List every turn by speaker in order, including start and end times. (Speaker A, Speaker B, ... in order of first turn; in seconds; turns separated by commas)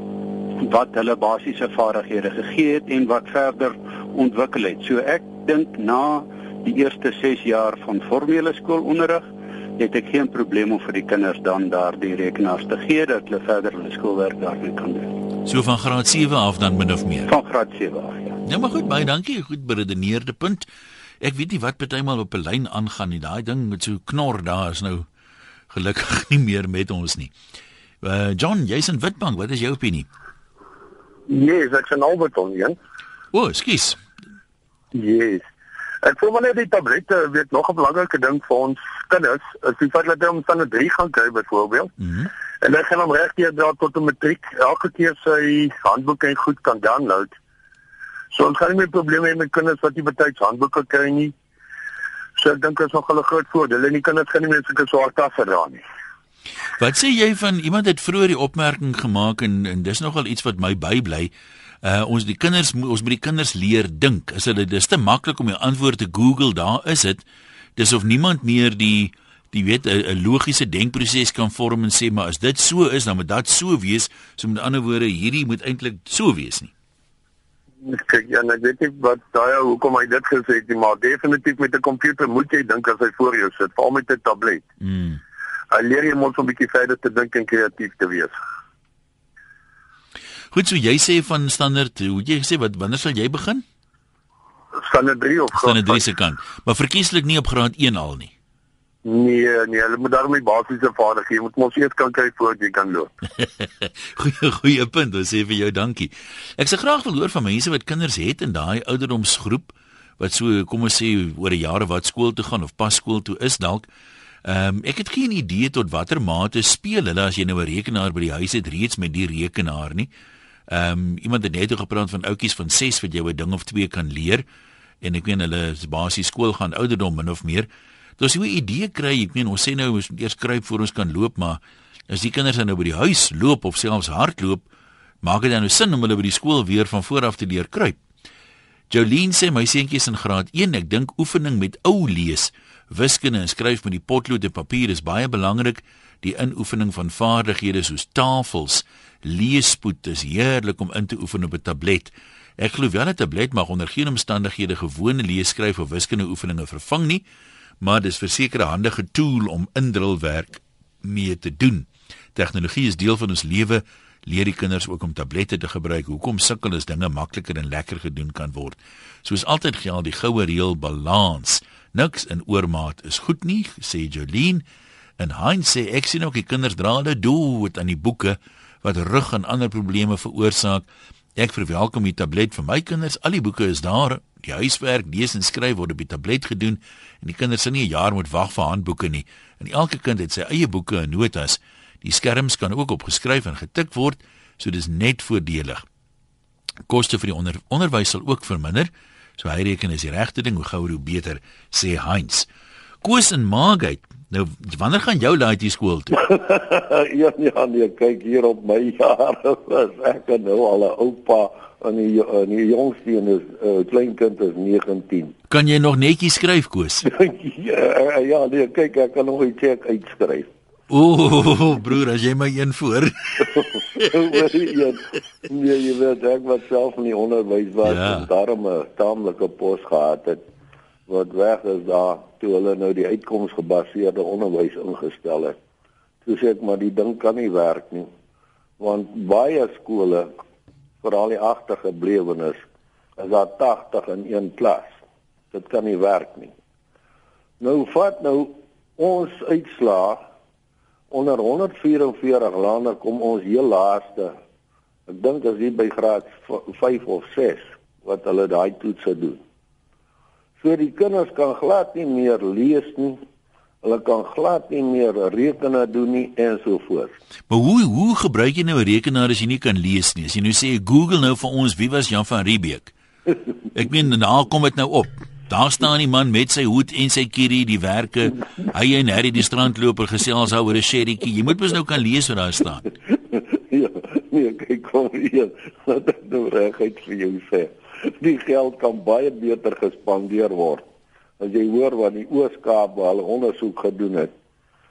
Speaker A: 0.5-9.2, Speaker A: 9.8-15.1, Speaker B: 15.4-17.3, Speaker A: 17.3-18.4, Speaker B: 18.4-20.6, Speaker B: 21.2-25.1, Speaker B: 25.7-27.3, Speaker B: 28.0-30.1, Speaker C: 31.3-32.8, Speaker B: 33.3-34.0, Speaker C: 34.9-35.4, Speaker C: 36.0-41.9, Speaker B: 42.0-42.3, Speaker C: 42.6-47.3, Speaker C: 48.3-51.3, Speaker C: 52.4-55.8, Speaker B: 56.8-61.3, Speaker B: 61.8-67.2, Speaker B: 67.8-76.7, Speaker C: 77.8-84.6, Speaker B: 84.8-85.2, Speaker C: 85.7-88.3, Speaker B: 90.5-93.6, Speaker C: 94.8-96.0, Speaker B: 95.5-98.3, Speaker C: 99.0-103.1, Speaker B: 103.4-113.8, Speaker B: 114.4-120.1, Speaker B: 120.7-124.4, Speaker B: 125.0-127.7, Speaker B: 128.2-134.7, Speaker B: 135.2-138.0, Speaker B: 138.9-157.2, Speaker B: 157.8-174.6, Speaker B: 175.2-180.8, Speaker B: 181.4-195.8, Speaker B: 196.9-202.5, Speaker B: 203.0-206.1, Speaker D: 206.2-215.3, Speaker B: 215.5-217.0, Speaker D: 217.1-220.5, Speaker B: 220.9-223.6, Speaker D: 223.4-230.4, Speaker B: 227.8-228.3, Speaker D: 231.1-235.6, Speaker D: 236.2-238.1, Speaker D: 238.8-240.4, Speaker D: 241.0-242.6, Speaker D: 243.2-245.0, Speaker D: 245.5-246.5, Speaker D: 247.6-250.2, Speaker D: 251.1-254.3, Speaker D: 255.1-259.4, Speaker D: 260.6-263.2, Speaker D: 263.8-267.1, Speaker B: 267.5-272.9, Speaker B: 273.7-282.8, Speaker D: 283.1-290.8, Speaker D: 291.4-294.3